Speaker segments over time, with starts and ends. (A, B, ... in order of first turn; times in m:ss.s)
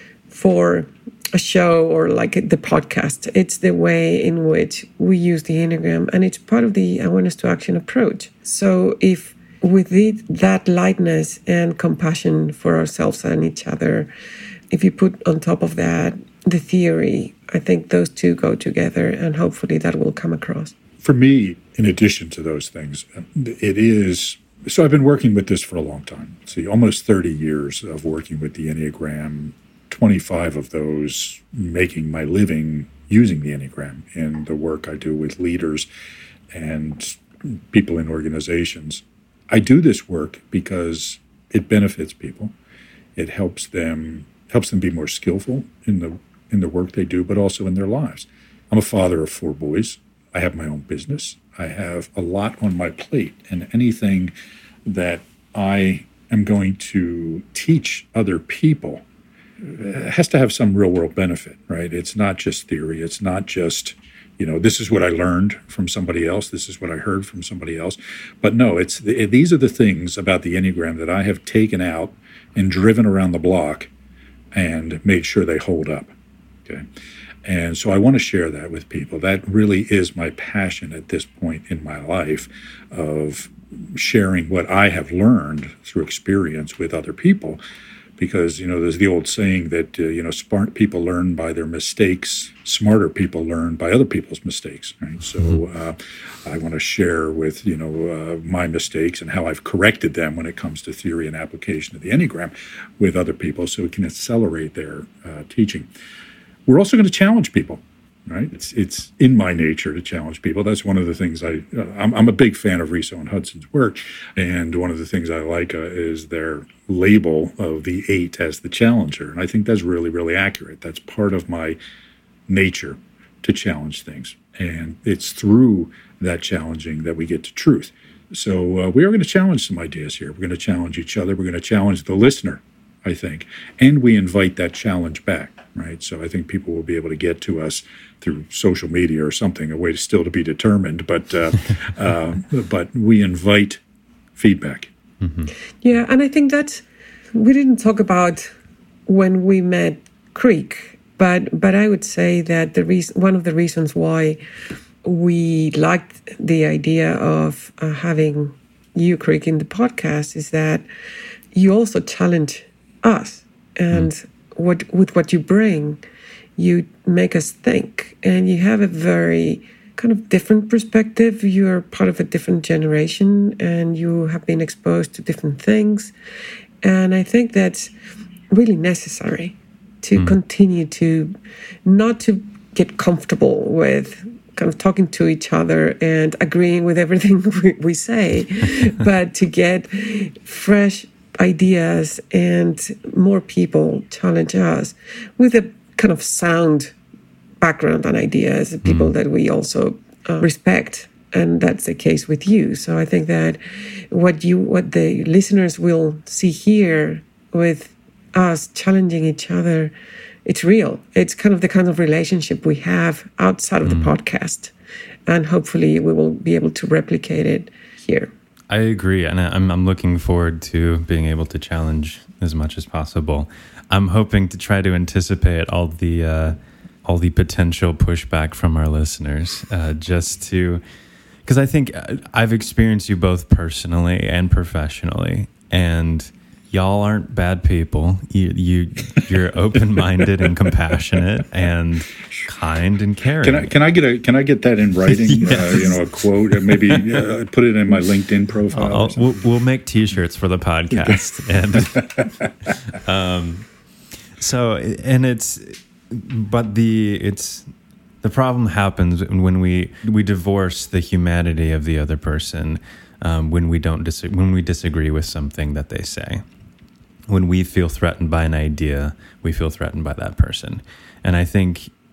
0:00.3-0:14.1 A
0:14.7-0:20.7 A
0:21.0-0:35.9 B
0:36.5-0:42.5 B
0:43.2-0:54.3 B
0:54.8-0:59.0 B
0:59.6-1:13.9 B
1:14.5-1:16.1 B
1:17.4-1:27.6 B
1:28.2-1:45.9 B
1:46.7-2:01.8 B
2:02.5-2:23.8 B
2:24.4-2:24.9 B
2:25.2-2:25.5 C
2:25.8-2:28.5 A
2:29.1-2:34.4 A
2:35.0-2:40.8 A
2:41.5-2:46.0 A
2:46.6-2:56.1 A
2:56.8-2:57.9 A
2:58.5-3:01.3 A
3:01.8-3:16.9 A
3:17.6-3:29.9 A
3:18.8-3:19.1 C
3:30.4-3:34.7 A
3:33.8-3:34.1 C
3:35.3-3:38.3 A
3:38.7-3:50.8 C
3:51.4-4:03.7 C
4:03.4-4:09.4 B
4:05.0-4:07.0 C
4:08.7-4:12.3 C
4:12.8-4:13.7 C
4:14.4-4:17.7 C
4:18.2-4:26.4 C
4:27.3-4:31.9 C